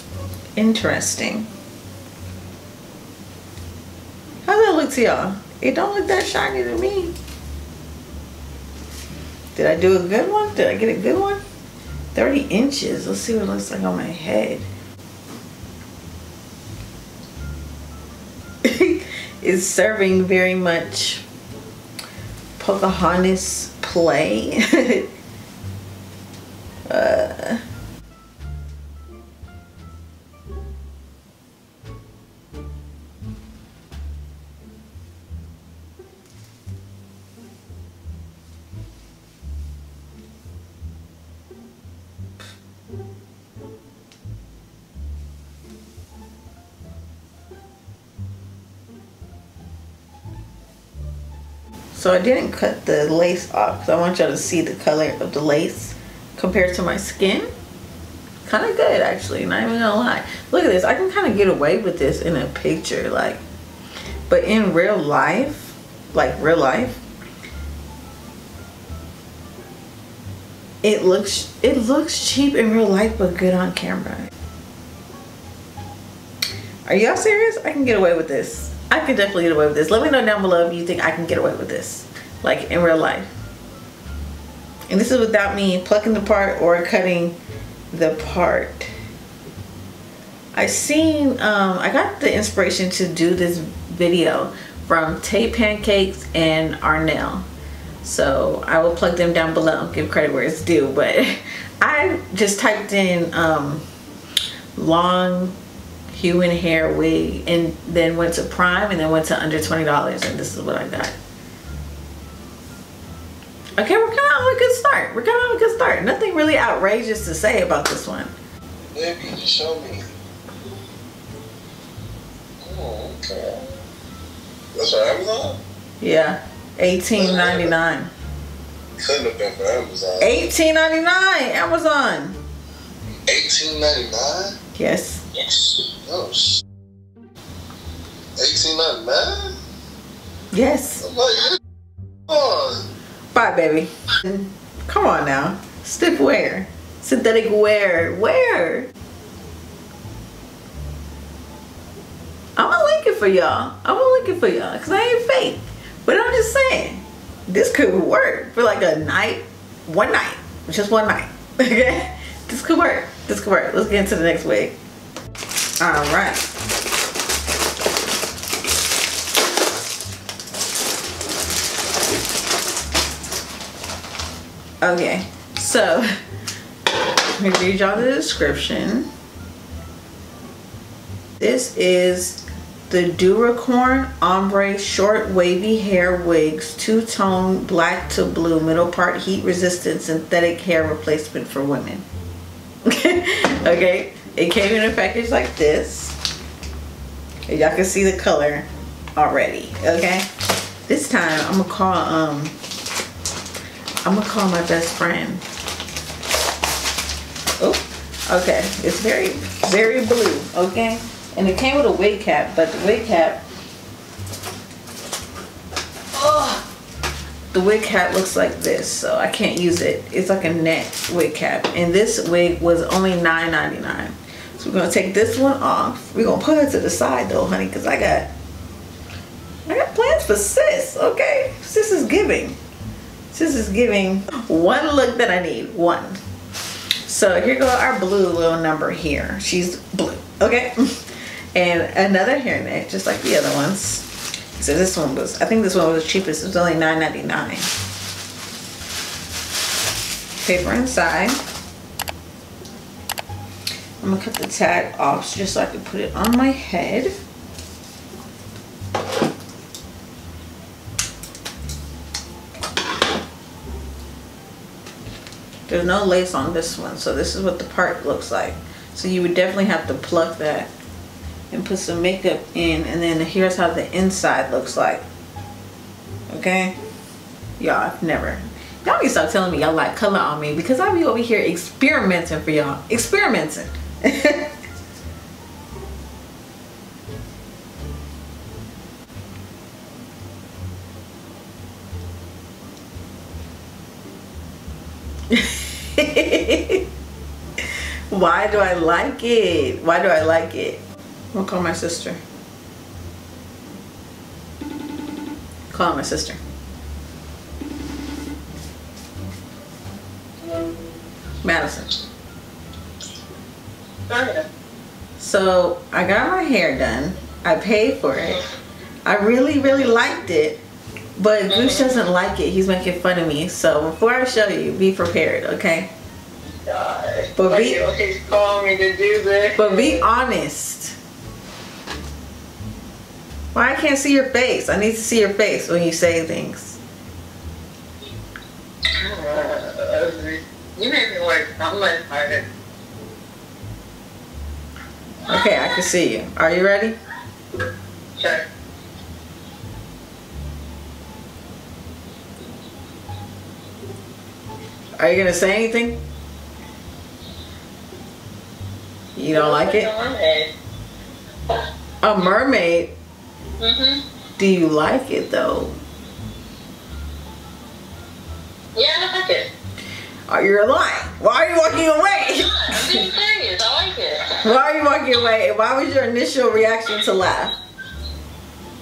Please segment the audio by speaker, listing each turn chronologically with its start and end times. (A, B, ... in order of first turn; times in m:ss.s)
0:00.6-0:01.5 A
0:04.4-0:07.2 A
0:09.5-0:11.4 A
0:12.1-0:14.6 A
0:18.6-0:21.2 A
0:22.6-0:25.1 A
0:26.9-0:27.6 A
0:51.9-0:57.5 A
0:58.4-1:03.4 A
1:04.3-1:07.0 A
1:10.8-1:14.3 A
1:16.9-1:23.3 A
1:24.9-1:27.4 A
1:27.9-1:28.9 A
1:30.5-1:37.5 A
1:38.0-1:43.8 A
1:44.8-1:45.6 A
1:46.1-1:51.2 A
1:53.8-1:58.3 A
1:58.9-2:00.1 B
2:02.6-2:03.7 B
2:04.7-2:05.6 B
2:06.0-2:08.1 A
2:07.2-2:07.7 B
2:09.0-2:10.3 B
2:10.2-2:12.4 A
2:13.3-2:14.5 B
2:14.8-2:15.3 A
2:15.4-2:16.6 B
2:18.4-2:19.6 B
2:20.5-2:21.1 A
2:21.1-2:21.6 B
2:22.3-2:22.9 B
2:23.3-2:28.9 A
2:32.6-2:44.8 A
2:45.8-2:46.5 A
2:54.8-2:56.1 A
2:56.9-2:59.1 A
3:01.4-3:12.1 A
3:12.9-3:16.2 A
3:17.5-3:20.3 A
3:20.9-3:22.6 A
3:24.0-3:25.4 A
3:27.6-3:33.4 A
3:36.1-3:36.7 A
3:37.5-3:48.3 A
3:49.7-3:52.6 A
3:53.3-3:56.2 A
3:57.0-4:07.7 A
4:10.4-4:11.4 A
4:14.0-4:17.2 A
4:25.7-4:30.7 A
4:31.5-4:35.0 A
4:36.3-4:36.8 A
4:37.6-4:44.5 A
4:55.3-4:56.9 A
4:57.6-5:02.2 A
5:05.7-5:06.4 A
5:11.4-5:12.0 A
5:14.1-5:14.4 C
5:15.2-5:18.4 A
5:19.0-5:20.6 A
5:21.2-5:25.9 A
5:21.5-5:22.0 C
5:26.6-5:30.0 C
5:27.4-5:27.8 A
5:29.6-5:31.0 A
5:33.5-5:36.8 A
5:39.0-5:42.5 C
5:45.3-5:47.0 A
5:48.2-5:48.4 C
5:55.0-5:56.0 A
5:59.2-5:59.9 A
5:59.3-6:00.5 C
6:02.0-6:02.9 A
6:03.6-6:04.0 C
6:04.4-6:05.8 A
6:08.8-6:09.5 C
6:10.3-6:13.0 A
6:12.2-6:14.4 C
6:14.4-6:17.5 A